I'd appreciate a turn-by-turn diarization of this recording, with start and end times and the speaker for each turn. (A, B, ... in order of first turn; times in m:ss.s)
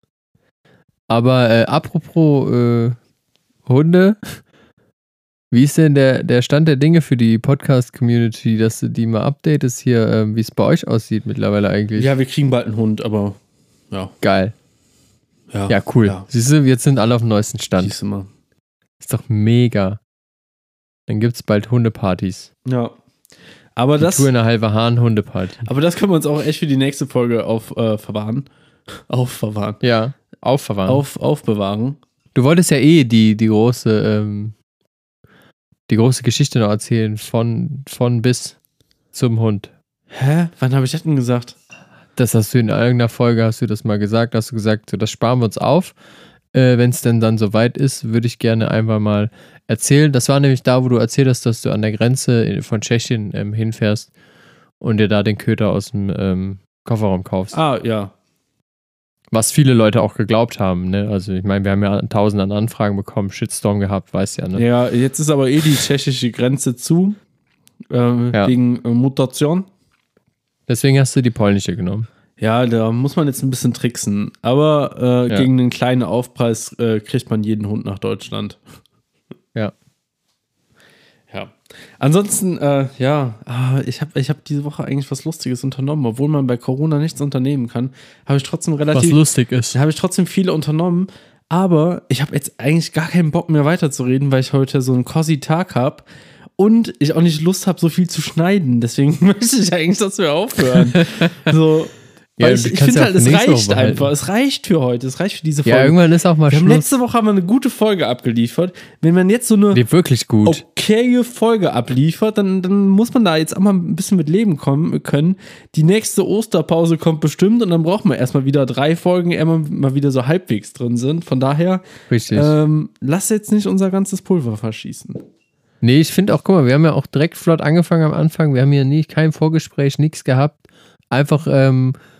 0:01.1-0:03.0 A
0:03.6-0:04.4 A
0:05.5-0:12.1 A
0:12.0-0:13.4 B
0:14.2-0:14.5 A
0:15.5-0:16.2 B
0:15.7-0:17.9 A
0:17.8-0:18.3 B
0:19.0-0:20.0 A
0:21.1-0:22.5 A
0:22.6-0:23.0 B
0:23.8-0:24.3 B
0:24.0-0:25.6 A
0:25.6-0:29.8 B
0:29.8-0:31.0 A
0:30.9-0:32.0 B
0:32.3-0:34.5 A
0:35.9-0:38.6 A
0:39.1-0:39.7 A
0:40.1-0:41.6 B
0:42.2-0:45.9 A
0:46.5-0:54.1 A
0:54.8-0:57.6 A
0:57.5-0:58.1 B
0:59.3-1:04.6 A
1:04.6-1:07.2 B
1:07.9-1:09.6 B
1:10.7-1:12.1 A
1:12.4-1:18.6 B
1:21.3-1:29.2 B
1:28.9-1:29.8 A
1:29.7-1:36.0 B
1:36.6-1:46.0 B
1:40.8-1:41.5 A
1:42.4-1:44.1 A
1:45.6-1:46.9 A
1:46.5-1:49.8 B
1:49.7-1:50.6 A
1:50.4-2:05.2 B
2:02.1-2:02.5 A
2:05.8-2:12.0 A